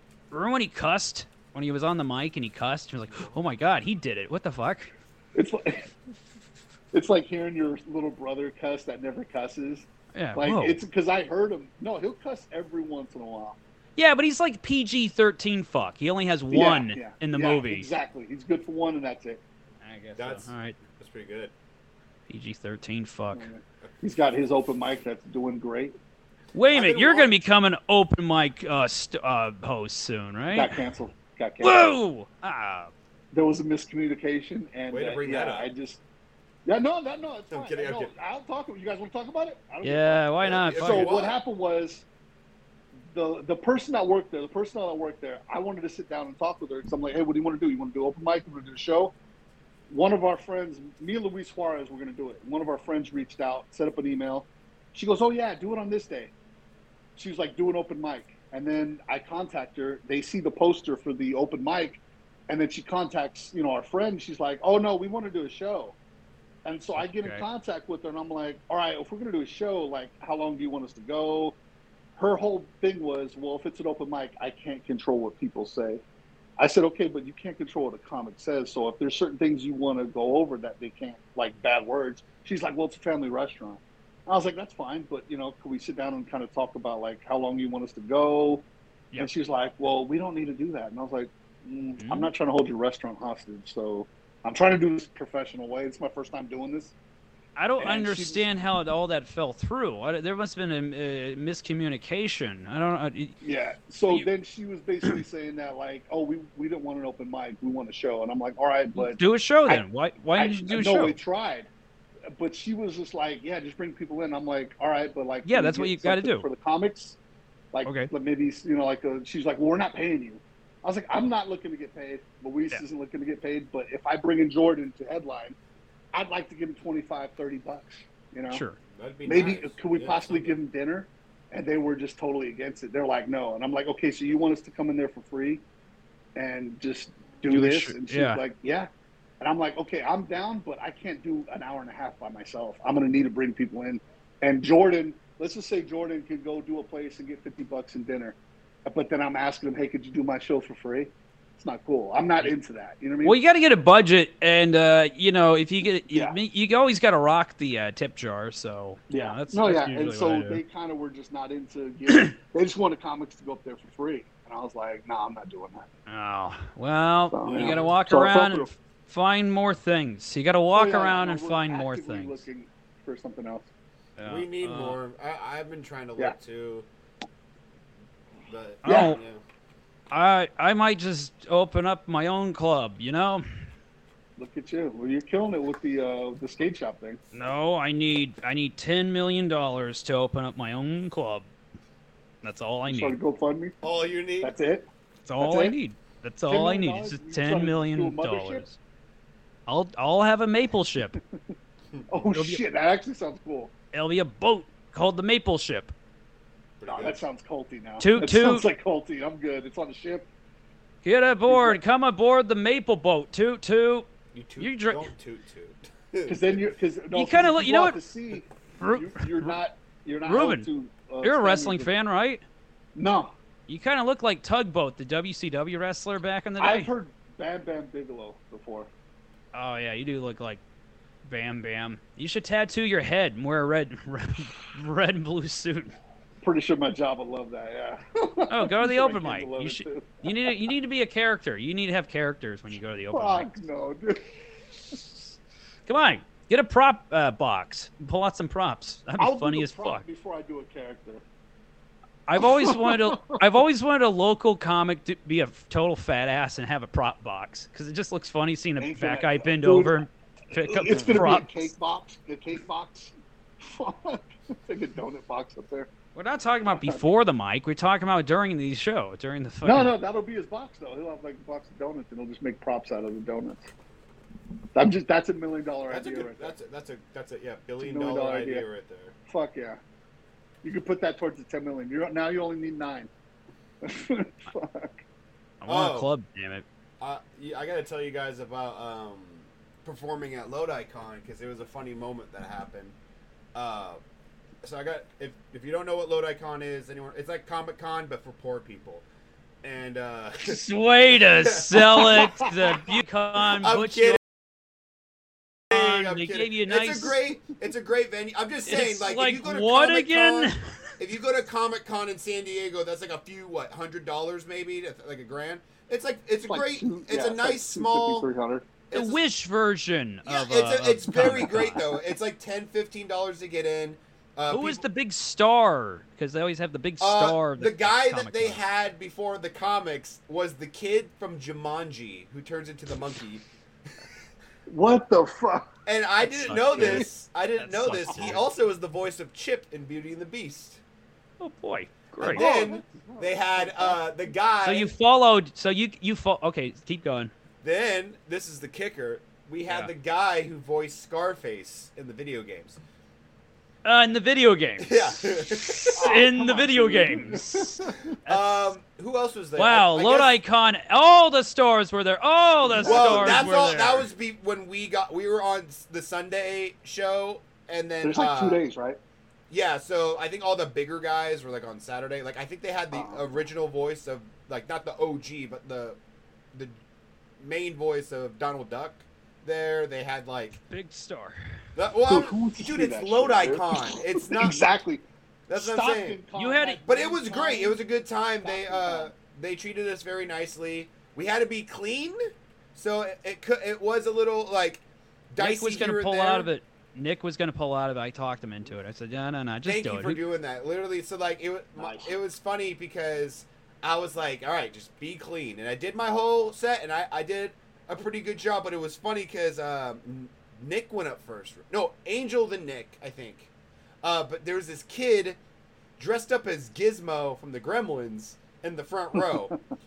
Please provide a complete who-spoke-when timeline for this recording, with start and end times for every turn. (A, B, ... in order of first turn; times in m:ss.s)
0:00.3-0:04.9 A
0:05.3-0:05.9 B
0:06.9-0:13.6 B
0:10.1-0:10.8 A
0:14.0-0:17.9 A
0:16.5-0:19.4 B
0:19.8-0:20.8 A
0:20.2-0:21.5 C
0:22.3-0:23.5 A
0:23.3-0:25.9 B
0:26.5-0:30.8 A
0:26.7-0:27.3 C
0:30.5-0:31.9 B
0:31.6-0:32.9 A
0:33.3-0:36.0 B
0:34.9-0:35.7 C
0:36.6-0:42.0 B
0:37.5-0:38.1 C
0:39.8-0:41.1 A
0:40.4-0:41.4 C
0:43.1-0:49.1 B
0:49.9-0:56.3 B
0:57.2-1:06.0 B
1:06.6-1:11.6 B
1:07.0-1:07.4 A
1:12.2-1:16.0 B
1:16.6-1:28.6 B
1:29.2-1:36.9 B
1:32.0-1:32.3 A
1:37.6-1:43.4 A
1:37.8-1:38.4 B
1:43.4-1:49.8 B
1:48.9-1:51.2 A
1:50.4-1:51.7 B
1:52.3-1:57.2 B
1:55.4-1:56.5 A
1:57.7-2:05.6 B
1:57.8-1:58.1 A
2:06.1-2:08.6 B
2:08.5-2:08.8 A
2:08.9-2:10.6 C
2:09.3-2:15.6 B
2:16.4-2:18.9 B
2:17.5-2:18.4 A
2:19.4-2:33.4 B
2:33.2-2:40.6 A
2:36.1-2:36.4 B
2:39.1-2:45.9 B
2:42.1-2:42.3 A
2:46.1-2:52.4 A
2:47.3-2:48.7 B
2:50.7-2:53.7 B
2:54.2-2:55.0 A
2:54.2-2:56.8 C
2:58.5-2:59.4 C
2:58.8-2:59.2 A
2:58.8-2:59.2 B
3:00.1-3:03.4 A
3:04.4-3:07.2 B
3:07.3-3:11.5 A
3:12.4-3:13.2 A
3:12.9-3:13.7 B
3:13.8-3:14.5 C
3:14.4-3:14.9 B
3:15.2-3:18.8 A
3:15.4-3:15.8 B
3:16.5-3:18.6 B
3:19.7-3:21.2 A
3:22.1-3:23.7 B
3:22.3-3:22.6 A
3:23.9-3:25.9 A
3:26.8-3:27.2 C
3:26.9-3:30.3 B
3:28.0-3:28.6 A
3:31.0-3:34.1 A
3:31.5-3:31.8 B
3:34.3-3:36.6 C
3:34.6-3:35.1 A
3:36.3-3:41.9 B
3:37.1-3:38.0 A
3:38.8-3:39.5 A
3:40.2-3:40.7 A
3:41.2-3:42.4 A
3:42.9-3:43.3 B
3:43.7-3:46.9 A
3:46.6-3:48.9 B
3:49.5-3:50.6 A
3:51.2-3:55.9 A
3:56.4-4:00.7 B
3:58.5-4:03.6 A
4:03.1-4:04.2 B
4:05.9-4:10.0 A
4:09.2-4:11.2 B
4:12.3-4:21.7 A
4:12.4-4:13.4 B
4:18.8-4:20.0 B
4:20.5-4:25.9 B
4:26.1-4:29.9 A
4:26.7-4:27.0 B
4:29.6-4:33.7 B
4:34.7-4:36.5 B
4:35.9-4:39.1 C
4:37.8-4:38.6 B
4:39.3-4:39.8 B
4:40.6-4:43.1 B
4:43.8-4:45.0 B
4:45.6-4:46.6 A
4:45.7-4:46.1 C
4:47.0-4:52.9 C
4:53.5-4:54.0 C
4:54.6-4:59.0 C
4:59.6-5:00.6 C
5:00.4-5:04.2 A
5:01.4-5:02.6 C
5:03.5-5:04.2 C
5:05.7-5:18.3 C
5:05.7-5:07.2 A
5:08.7-5:10.6 A
5:16.4-5:18.7 B
5:18.9-5:19.2 C
5:18.9-5:21.9 A
5:20.2-5:24.8 C
5:21.3-5:21.6 B
5:24.5-5:28.6 A
5:27.0-5:33.4 C
5:34.7-5:35.7 B
5:35.8-5:40.8 C
5:36.2-5:38.4 A
5:36.7-5:37.0 B
5:41.4-5:42.5 A
5:42.2-5:44.9 C
5:42.2-5:44.0 B
5:44.6-5:47.3 A
5:47.6-5:52.8 C
5:53.8-5:58.7 A
5:54.8-5:56.0 C
5:56.0-5:58.1 B
5:58.2-6:00.3 C
5:59.6-6:04.1 A
6:02.6-6:03.5 B
6:02.8-6:08.6 C
6:08.0-6:09.0 B
6:09.5-6:16.0 C
6:12.9-6:13.2 B
6:17.4-6:20.6 C
6:20.6-6:21.4 A
6:21.8-6:24.6 C
6:22.0-6:27.8 B
6:25.5-6:26.2 C
6:26.3-6:26.8 A
6:26.8-6:32.2 C
6:28.4-6:29.1 B
6:32.7-6:36.5 C
6:35.4-6:40.2 A
6:39.6-6:53.5 C
6:41.8-6:42.2 B
6:54.0-6:55.4 C
6:56.0-6:59.5 C